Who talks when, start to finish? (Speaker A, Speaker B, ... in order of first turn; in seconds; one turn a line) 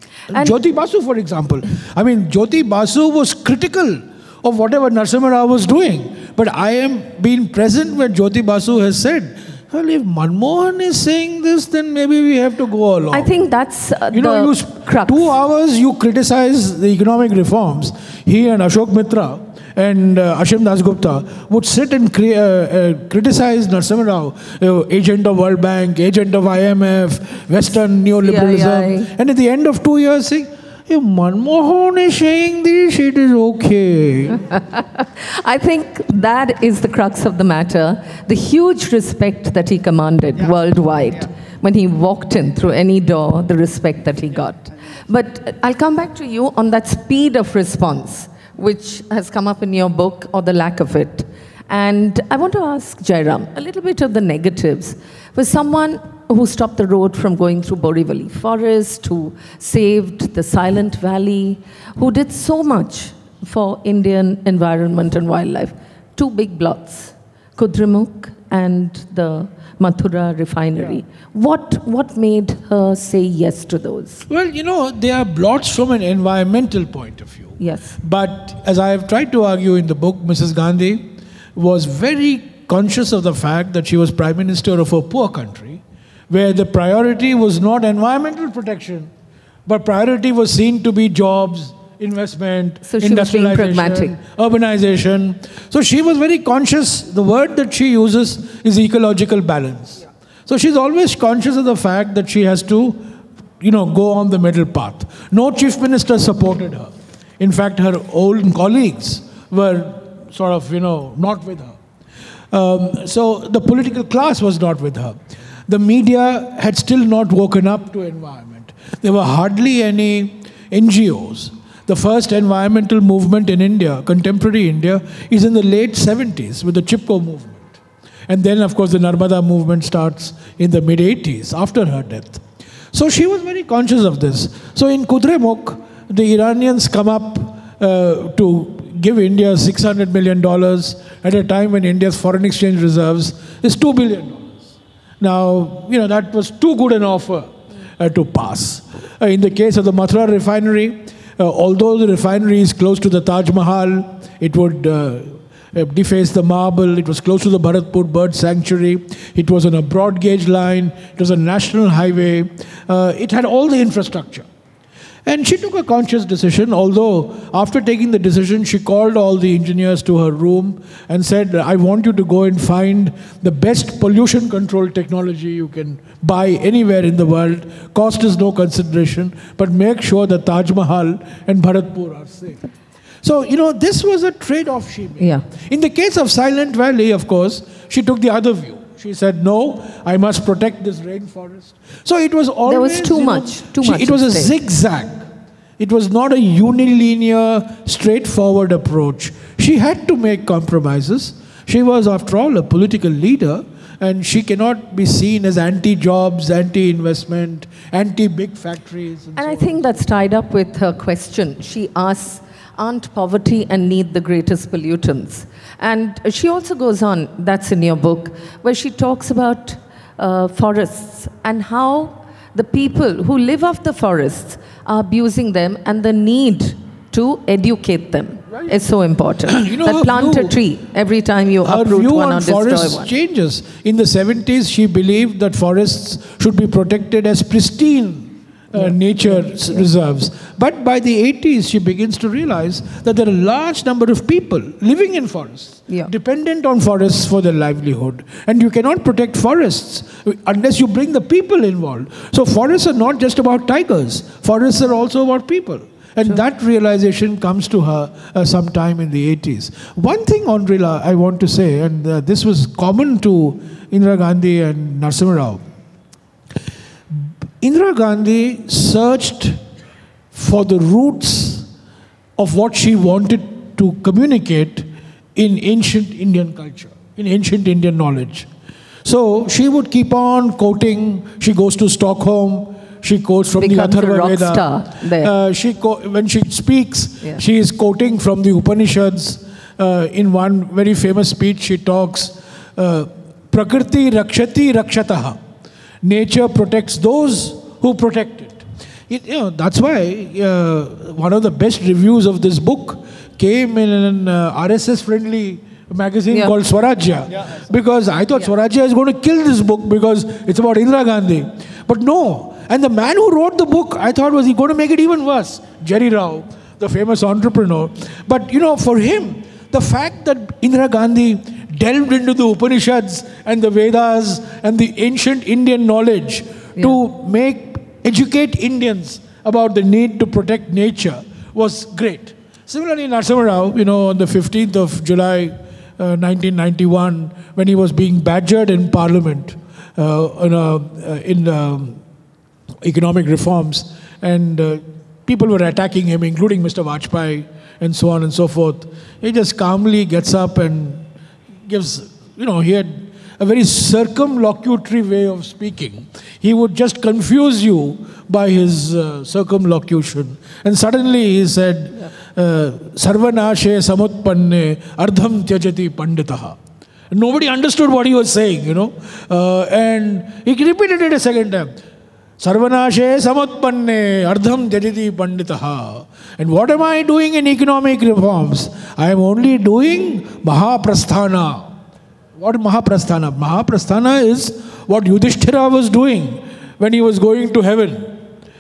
Speaker A: 0.3-13.3
Speaker B: 13.1-15.3
Speaker A: 14.1-34.5
Speaker B: 28.2-29.1
Speaker B: 34.5-74.2
Speaker A: 74.3-89.1
Speaker B: 77.6-78.0
Speaker A: 89.7-103.1
Speaker B: 92.8-94.2
Speaker A: 103.6-111.8
Speaker A: 112.5-127.8
Speaker A: 128.3-164.5
Speaker A: 165.3-182.6
Speaker A: 183.2-195.3
Speaker B: 185.2-185.4
Speaker B: 192.7-194.5
Speaker A: 195.8-209.8
Speaker B: 209.4-233.1
Speaker A: 229.5-230.6
Speaker A: 231.7-265.6
Speaker B: 238.8-239.9
Speaker A: 267.1-269.6
Speaker A: 270.3-271.7
Speaker A: 272.4-278.5
Speaker A: 279.0-295.4
Speaker B: 283.6-285.3
Speaker A: 296.0-342.0
Speaker A: 342.8-351.1
Speaker A: 351.7-366.6
Speaker A: 367.1-371.7
Speaker A: 372.4-381.8
Speaker A: 382.4-388.2